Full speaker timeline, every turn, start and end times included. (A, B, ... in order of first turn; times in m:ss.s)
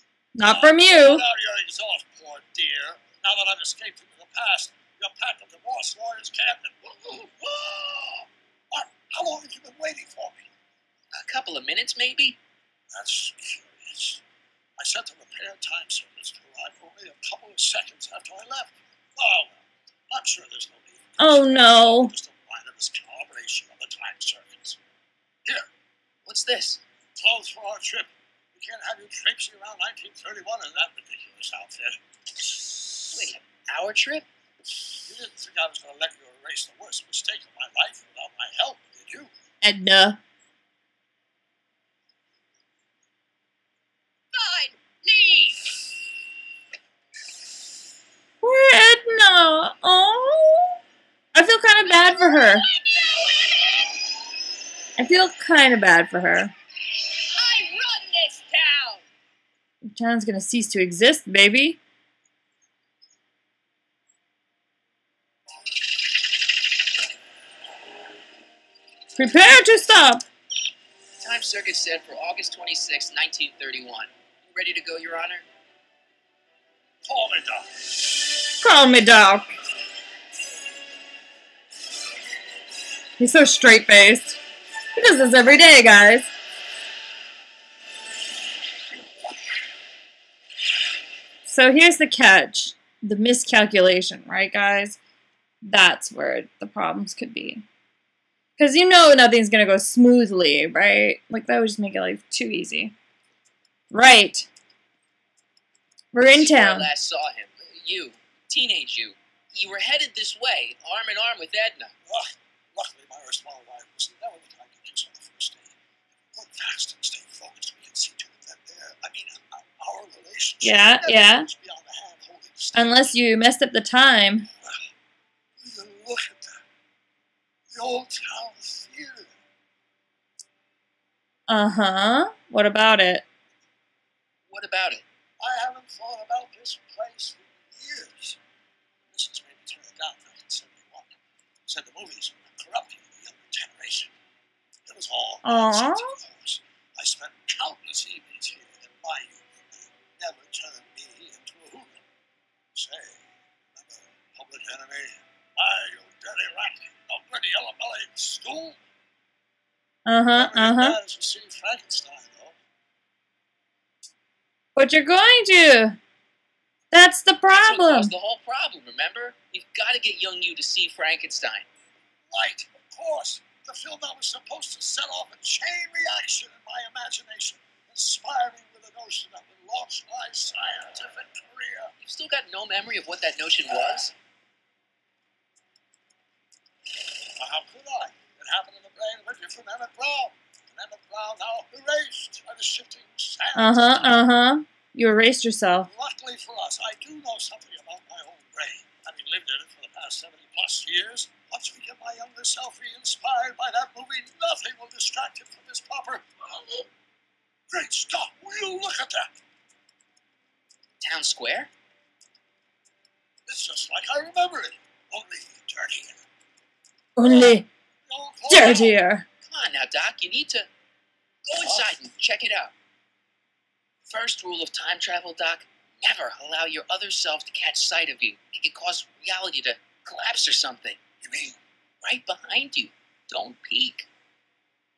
0:00.3-0:01.2 A
0:00.4-0:10.5 B
0:11.1-0:12.4 C
0:12.9-0:14.2 B
0:14.8-0:24.8 B
0:21.2-0:22.1 A
0:26.2-0:26.8 C
0:27.1-0:32.0 B
0:33.1-0:34.3 C
0:35.0-0:39.3 B
0:39.6-0:40.2 A
0:44.3-0:45.7 D
0:48.4-0:50.8 A
0:51.3-0:52.6 A
0:51.9-0:54.0 D
0:55.0-0:56.5 A
0:57.2-0:59.0 D
0:59.9-1:01.8 A
1:09.2-1:10.2 A
1:11.2-1:15.4 C
1:17.0-1:17.7 B
1:18.6-1:19.5 A
1:23.2-1:24.4 A
1:25.0-1:26.3 A
1:31.4-1:35.0 A
1:35.6-1:37.6 A
1:38.6-1:42.9 A
1:43.9-1:44.5 A
1:46.1-1:46.9 A
1:46.3-1:51.9 C
1:52.0-1:55.7 B
1:56.3-2:03.0 B
2:00.6-2:01.5 A
2:02.7-2:04.5 A
2:04.5-2:04.9 B
2:05.6-2:06.6 B
2:07.7-2:09.4 B
2:11.5-2:13.2 A
2:14.5-2:15.0 C
2:15.4-2:18.4 B
2:19.1-2:21.1 B
2:21.7-2:24.1 B
2:24.8-2:32.0 B
2:25.4-2:26.2 A
2:32.7-2:38.8 B
2:40.0-2:41.0 A
2:40.3-2:42.6 B
2:44.8-2:46.0 A
2:46.9-2:48.1 A
2:47.5-2:51.7 C
2:52.3-3:01.9 B
3:02.0-3:04.1 C
3:07.4-3:14.3 B
3:13.6-3:15.9 A
3:15.9-3:26.9 B
3:27.7-3:29.3 B
3:31.0-3:31.7 C
3:33.4-3:36.2 B
3:37.2-3:37.6 A
3:37.2-3:39.0 B
3:38.5-3:39.2 A
3:39.4-3:40.7 C
3:41.4-3:42.7 C
3:41.6-3:41.9 B
3:44.0-3:51.0 C
3:51.2-3:51.6 B
3:52.0-3:54.1 C